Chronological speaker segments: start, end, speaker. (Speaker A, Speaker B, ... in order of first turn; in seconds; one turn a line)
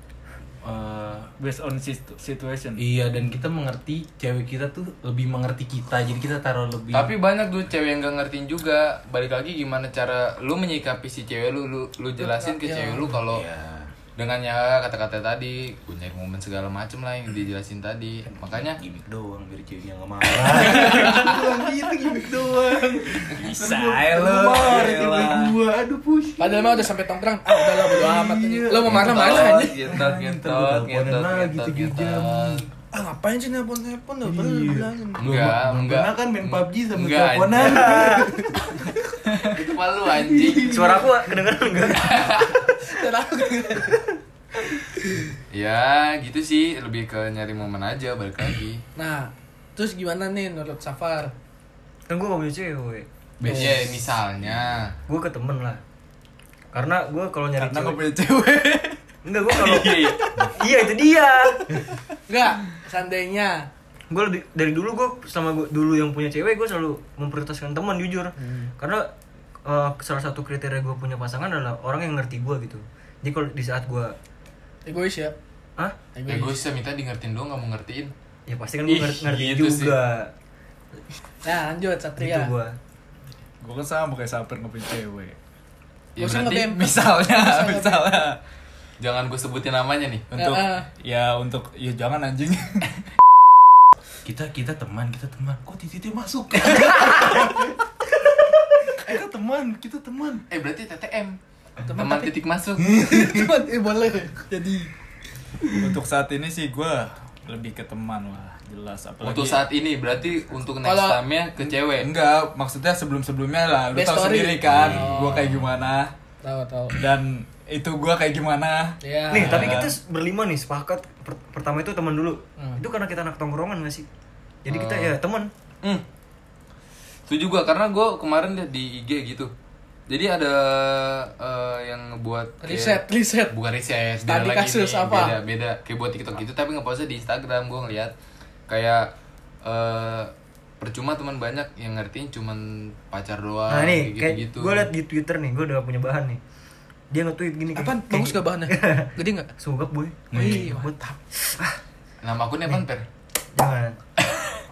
Speaker A: 0.6-1.3
Speaker B: 1.4-2.8
Speaker A: 2.8-7.1
Speaker C: 6.9-13.4
Speaker D: 12.2-13.2
Speaker A: 13.2-13.9
Speaker C: 14.2-18.8
Speaker A: 18.3-26.9
Speaker C: 20.8-21.2
Speaker B: 23.3-25.6
Speaker D: 26.4-29.8
Speaker A: 27.5-32.7
Speaker C: 28.8-32.6
Speaker D: 32.9-35.2
Speaker A: 34.2-38.5
Speaker C: 35.2-38.1
Speaker E: 37.8-38.3
Speaker B: 39.3-39.5
Speaker C: 39.4-41.0
Speaker A: 40.2-41.1
Speaker E: 40.6-42.6
Speaker C: 41.9-42.6
Speaker D: 42.8-44.1
Speaker C: 45.5-48.8
Speaker D: 49.0-51.3
Speaker E: 52.1-53.1
Speaker A: 53.4-53.8
Speaker C: 53.4-54.9
Speaker D: 53.4-53.9
Speaker A: 54.4-54.8
Speaker E: 55.1-55.8
Speaker E: 56.7-58.0
Speaker B: 57.6-60.5
Speaker E: 59.2-61.9
Speaker C: 59.7-60.2
Speaker B: 61.7-62.0
Speaker D: 62.3-63.7
Speaker E: 64.1-69.1
Speaker E: 69.6-74.2
Speaker D: 74.8-75.3
Speaker D: 76.1-76.6
Speaker C: 76.3-78.1
Speaker E: 78.5-80.3
Speaker C: 78.8-80.0
Speaker D: 81.4-82.5
Speaker E: 82.2-82.8
Speaker B: 83.6-85.3
Speaker C: 86.2-86.6
Speaker D: 86.2-88.2
Speaker B: 86.5-88.4
Speaker C: 89.0-90.3
Speaker B: 90.3-92.9
Speaker D: 90.3-90.9
Speaker A: 94.2-100.5
Speaker C: 100.5-101.4
Speaker D: 101.8-102.3
Speaker C: 101.9-103.0
Speaker D: 102.9-104.5
Speaker A: 103.0-103.4
Speaker B: 104.5-104.9
Speaker B: 105.7-109.6
Speaker C: 109.2-112.1
Speaker D: 110.8-111.2
Speaker B: 111.9-116.1
Speaker D: 113.9-115.5
Speaker D: 116.4-117.0
Speaker B: 116.9-119.9
Speaker D: 119.0-119.8
Speaker E: 119.3-124.1
Speaker E: 124.6-125.5
Speaker C: 124.7-125.2
Speaker C: 127.3-129.5
Speaker C: 130.1-138.1
Speaker D: 132.6-133.5
Speaker D: 134.2-135.3
Speaker C: 138.7-144.9
Speaker E: 143.7-146.4
Speaker E: 147.1-151.8
Speaker D: 147.7-149.5
Speaker A: 150.3-151.0
Speaker D: 150.3-150.9
Speaker C: 152.2-153.0
Speaker E: 153.5-154.0